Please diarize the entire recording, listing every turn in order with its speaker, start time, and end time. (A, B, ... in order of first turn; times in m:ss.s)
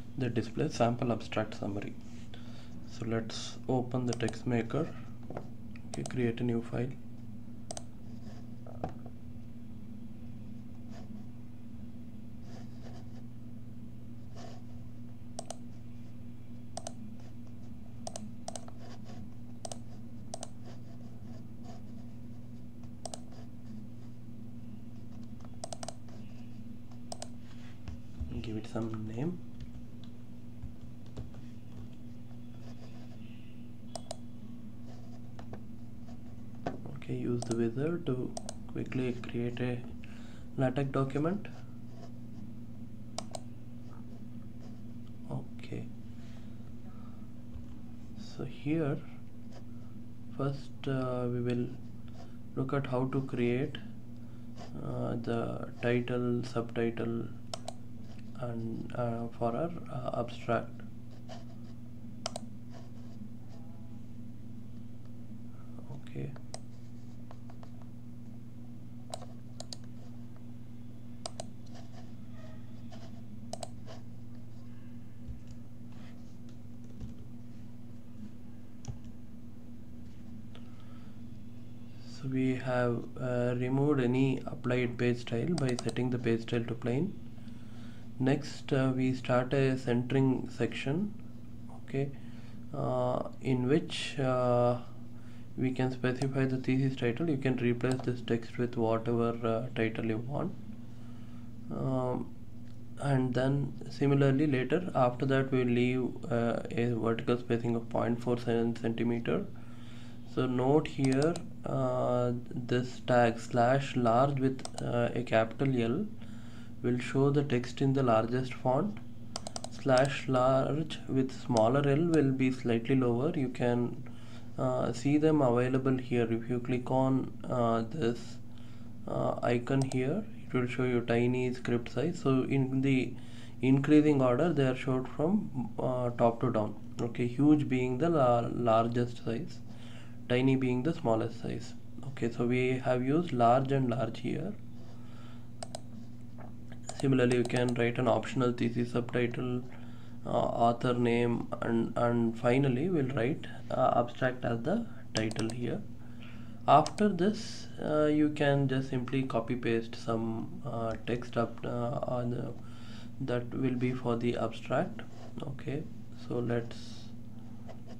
0:00.2-0:02.0 A
0:02.9-0:04.9 A
0:05.9-0:07.0 A
0:28.3-0:29.4 A
0:36.8-0:39.9 A
0:40.6-0:41.5 A
0:45.3-0:45.9 A
0:48.2-0:49.0 A
0:50.3-0:51.8 A
0:52.5-0:53.8 A
0:54.7-0:57.4 A
0:58.4-1:00.9 A
1:05.8-1:06.4 A
1:22.0-1:27.2 A
1:28.2-1:31.2 A
1:31.7-1:32.1 A
1:32.7-1:34.9 A
1:35.6-1:40.6 A
1:41.7-1:42.3 A
1:43.0-1:49.5 A
1:50.3-1:56.1 A
1:56.8-1:59.0 A
1:59.7-2:08.4 A
2:09.0-2:19.6 A
2:20.3-2:24.6 A
2:26.9-2:29.7 A
2:30.2-2:35.8 A
2:36.7-2:47.1 A